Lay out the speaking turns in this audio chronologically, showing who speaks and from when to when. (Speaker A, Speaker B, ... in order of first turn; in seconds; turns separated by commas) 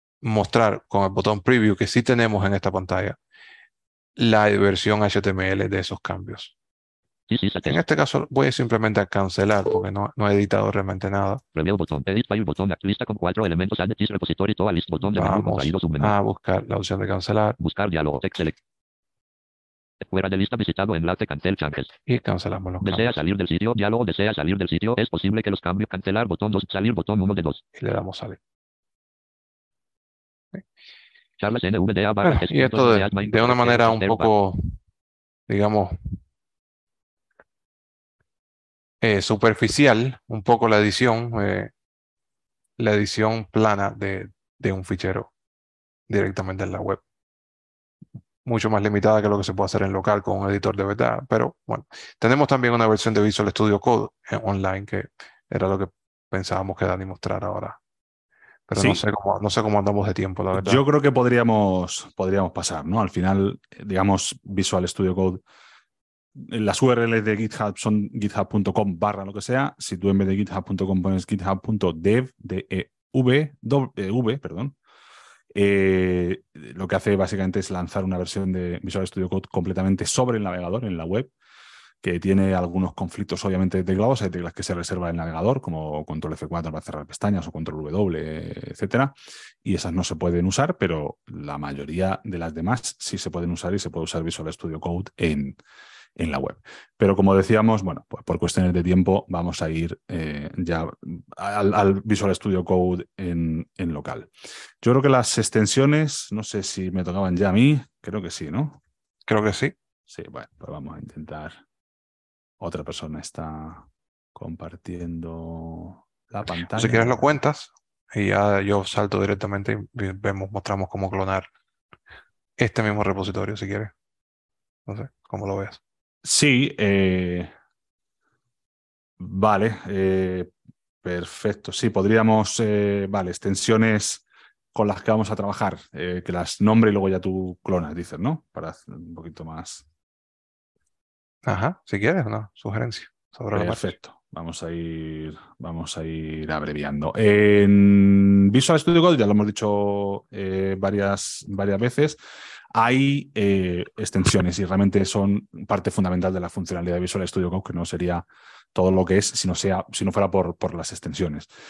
Speaker A: 0.2-3.2, Speaker A: 4.2-6.5, Speaker B: 7.3-7.8, Speaker A: 7.6-11.4, Speaker B: 11.5-16.1, Speaker A: 15.1-17.6, Speaker B: 17.6-18.6, Speaker B: 20.0-21.9, Speaker A: 22.1-23.1, Speaker B: 22.8-27.6, Speaker A: 27.8-28.4, Speaker B: 31.4-34.3, Speaker A: 32.2-34.7, Speaker A: 35.5-36.0, Speaker A: 39.0-41.7, Speaker A: 42.8-45.3, Speaker A: 46.1-47.0, Speaker A: 48.4-57.8, Speaker A: 58.7-60.8, Speaker C: 58.8-59.0, Speaker C: 60.5-65.4, Speaker C: 66.4-74.8, Speaker C: 75.5-81.3, Speaker C: 82.0-95.6, Speaker C: 96.2-104.3, Speaker C: 104.8-108.8, Speaker A: 109.2-109.7, Speaker C: 110.1-111.6, Speaker C: 112.6-117.3, Speaker A: 116.7-121.5, Speaker A: 122.6-123.9, Speaker A: 124.9-125.8, Speaker C: 126.2-127.5, Speaker C: 129.2-130.5, Speaker C: 131.0-139.8, Speaker A: 141.4-143.9, Speaker C: 143.5-152.2, Speaker C: 152.7-161.5